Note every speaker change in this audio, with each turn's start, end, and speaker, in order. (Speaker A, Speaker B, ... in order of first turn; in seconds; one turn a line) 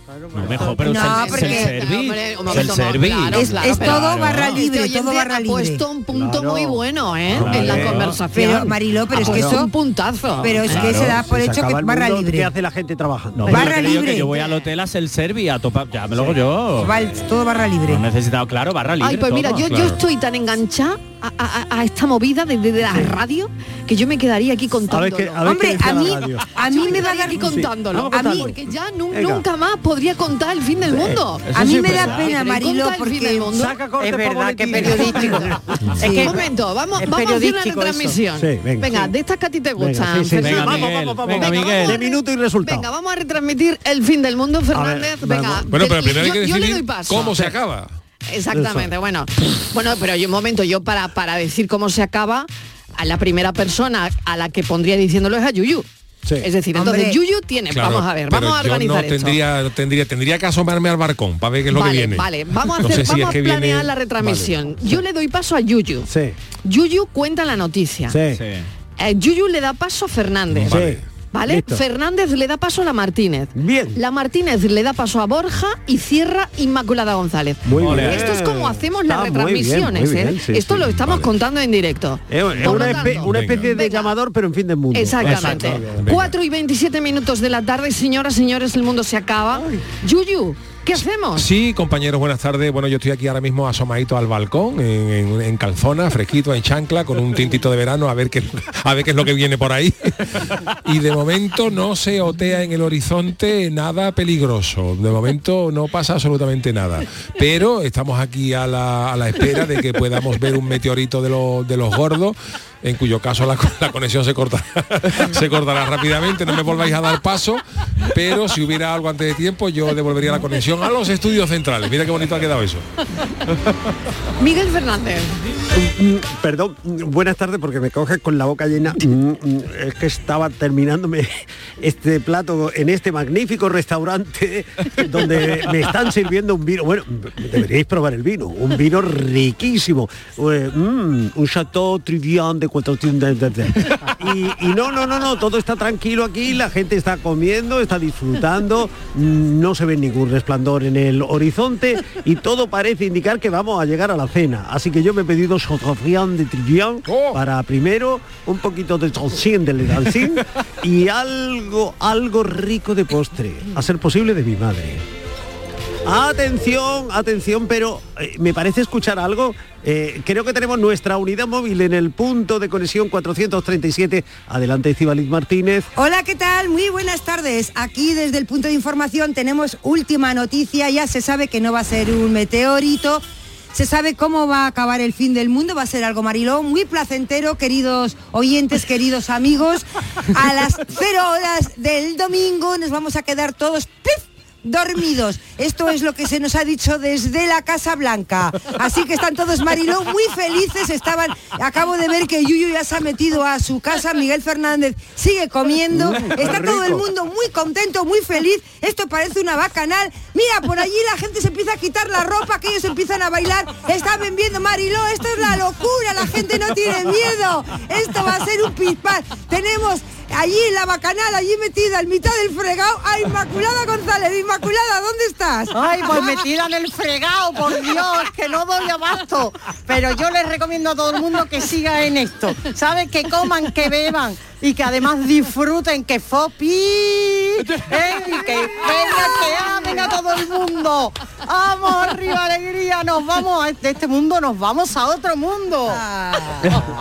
Speaker A: 0.3-4.6
Speaker B: 0.3-0.7
Speaker C: 0.6-11.0
Speaker D: 0.8-1.7
Speaker D: 3.3-5.8
Speaker B: 6.1-8.1
Speaker A: 7.3-8.2
Speaker D: 8.3-9.7
Speaker B: 9.2-9.5
Speaker D: 10.4-12.5
Speaker A: 10.7-11.2
Speaker B: 10.8-13.8
Speaker A: 13.4-16.9
Speaker D: 13.5-14.3
Speaker C: 14.3-14.6
Speaker B: 16.1-16.4
Speaker D: 16.8-18.1
Speaker A: 17.9-19.9
Speaker C: 19.0-25.6
Speaker E: 19.7-19.9
Speaker B: 24.9-26.5
Speaker D: 25.4-27.6
Speaker C: 26.6-33.7
Speaker B: 27.4-28.6
Speaker D: 28.1-28.5
Speaker B: 29.1-29.4
Speaker B: 30.9-32.2
Speaker A: 31.5-32.2
Speaker D: 31.5-33.6
Speaker B: 33.5-35.9
Speaker F: 34.0-38.2
Speaker C: 34.7-35.3
Speaker D: 36.0-36.3
Speaker C: 36.1-47.4
Speaker B: 38.3-39.1
Speaker B: 39.8-42.9
Speaker A: 40.4-42.0
Speaker B: 44.7-45.7
Speaker E: 45.7-47.9
Speaker C: 48.3-55.9
Speaker B: 48.5-48.9
Speaker C: 56.4-59.4
Speaker D: 56.7-57.2
Speaker E: 57.7-63.9
Speaker C: 61.7-66.1
Speaker B: 66.0-66.3
Speaker C: 66.6-68.2
Speaker B: 68.1-68.4
Speaker A: 68.3-68.7
Speaker C: 69.0-84.1
Speaker B: 70.7-71.8
Speaker B: 73.5-74.0
Speaker B: 77.6-81.2
Speaker A: 77.7-78.3
Speaker B: 82.3-86.1
Speaker E: 83.2-83.7
Speaker C: 84.9-91.5
Speaker A: 85.3-85.7
Speaker E: 85.8-86.3
Speaker B: 89.5-89.8
Speaker E: 91.3-122.8
Speaker C: 124.4-125.3
Speaker B: 125.7-165.0
Speaker E: 157.1-157.4
Speaker B: 166.0-175.9
Speaker D: 175.9-226.4
Speaker B: 205.9-207.0
Speaker F: 225.7-246.7